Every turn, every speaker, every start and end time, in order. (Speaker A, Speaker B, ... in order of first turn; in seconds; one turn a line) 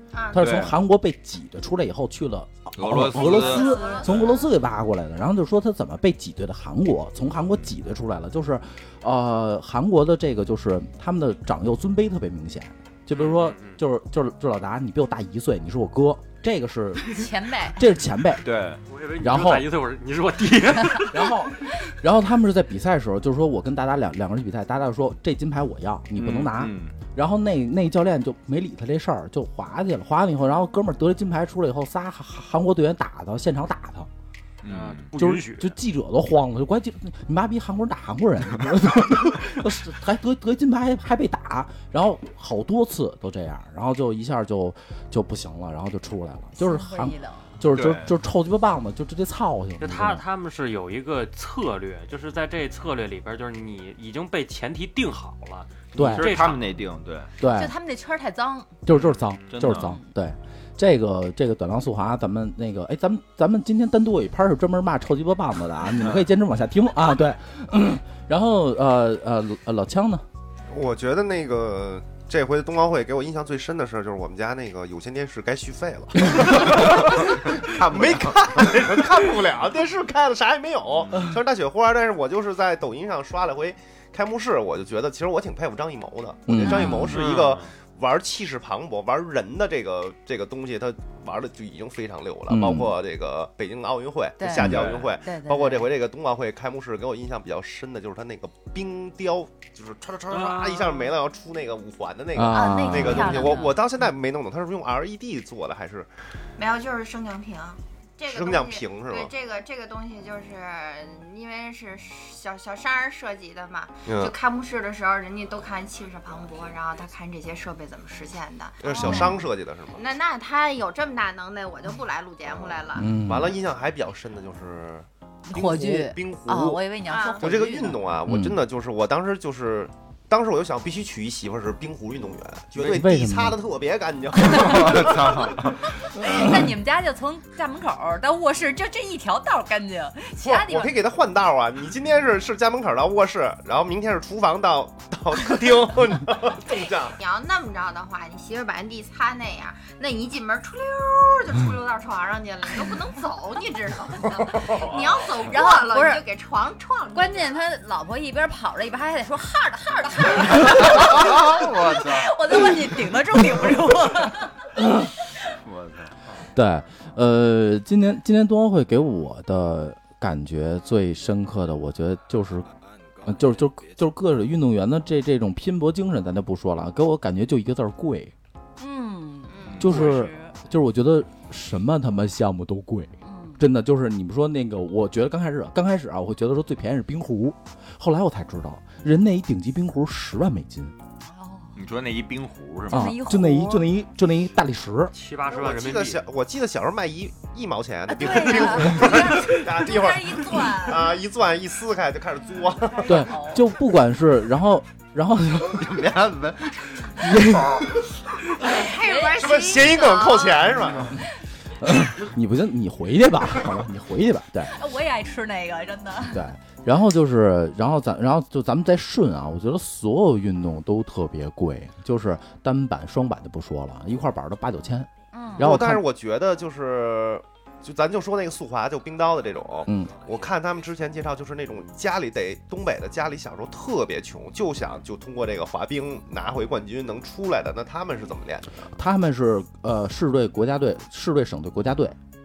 Speaker A: 0.1-0.6
Speaker B: 0.3-18.5
Speaker C: 0.4-0.8
Speaker C: 2.8-4.3
Speaker A: 3.2-4.5
Speaker D: 3.7-4.0
Speaker E: 13.1-13.8
Speaker D: 17.1-17.9
Speaker C: 18.4-18.8
Speaker E: 18.9-21.5
Speaker B: 19.2-19.7
Speaker B: 21.0-34.1
Speaker C: 26.2-27.0
Speaker C: 34.6-35.1
Speaker E: 34.7-35.8
Speaker B: 35.2-50.2
Speaker D: 46.6-47.6
Speaker C: 47.7-48.1
Speaker E: 49.8-56.7
Speaker C: 55.9-57.3
Speaker B: 56.0-56.4
Speaker B: 57.4-57.7
Speaker D: 57.4-58.7
Speaker B: 58.9-70.2
Speaker E: 58.9-59.7
Speaker C: 59.5-60.0
Speaker D: 59.8-60.1
Speaker F: 70.7-106.1
Speaker C: 76.5-79.0
Speaker B: 86.5-87.2
Speaker D: 86.7-87.0
Speaker C: 87.1-87.6
Speaker E: 87.1-87.7
Speaker B: 92.5-92.9
Speaker D: 94.4-95.9
Speaker C: 94.6-95.2
Speaker E: 100.3-101.1
Speaker B: 102.3-103.5
Speaker D: 102.5-103.8
Speaker A: 106.6-123.1
Speaker F: 108.3-109.3
Speaker F: 114.1-114.3
Speaker F: 118.8-120.0
Speaker D: 118.9-119.3
Speaker F: 122.5-126.8
Speaker B: 123.0-123.6
Speaker D: 125.5-128.0
Speaker A: 127.1-127.5
Speaker F: 127.3-135.6
Speaker B: 128.3-128.6
Speaker B: 132.9-133.6
Speaker C: 134.5-135.8
Speaker D: 136.2-141.0
Speaker B: 136.2-136.7
Speaker F: 140.4-147.2
Speaker A: 147.1-157.6
Speaker F: 154.4-155.2
Speaker D: 155.3-156.2
Speaker D: 157.1-164.6
Speaker C: 160.5-162.4
Speaker B: 164.8-165.1
Speaker C: 165.6-166.3
Speaker B: 166.5-172.7
Speaker B: 173.2-178.3
Speaker D: 178.8-180.5
Speaker A: 179.5-180.1
Speaker B: 179.8-190.9
Speaker D: 183.2-183.6
Speaker D: 191.3-191.8
Speaker C: 191.8-193.2
Speaker B: 192.9-195.1
Speaker D: 192.9-193.9
Speaker E: 195.1-196.2
Speaker F: 195.4-203.2
Speaker D: 198.1-201.2
Speaker D: 202.5-203.7
Speaker B: 203.1-205.9
Speaker C: 205.7-207.6
Speaker B: 207.2-207.9
Speaker A: 208.5-210.8
Speaker D: 208.6-209.4
Speaker F: 209.3-211.2
Speaker B: 211.8-214.7
Speaker D: 214.7-216.5
Speaker B: 216.3-226.0
Speaker D: 225.3-225.7
Speaker F: 225.6-238.9
Speaker B: 229.9-230.2
Speaker B: 238.9-242.2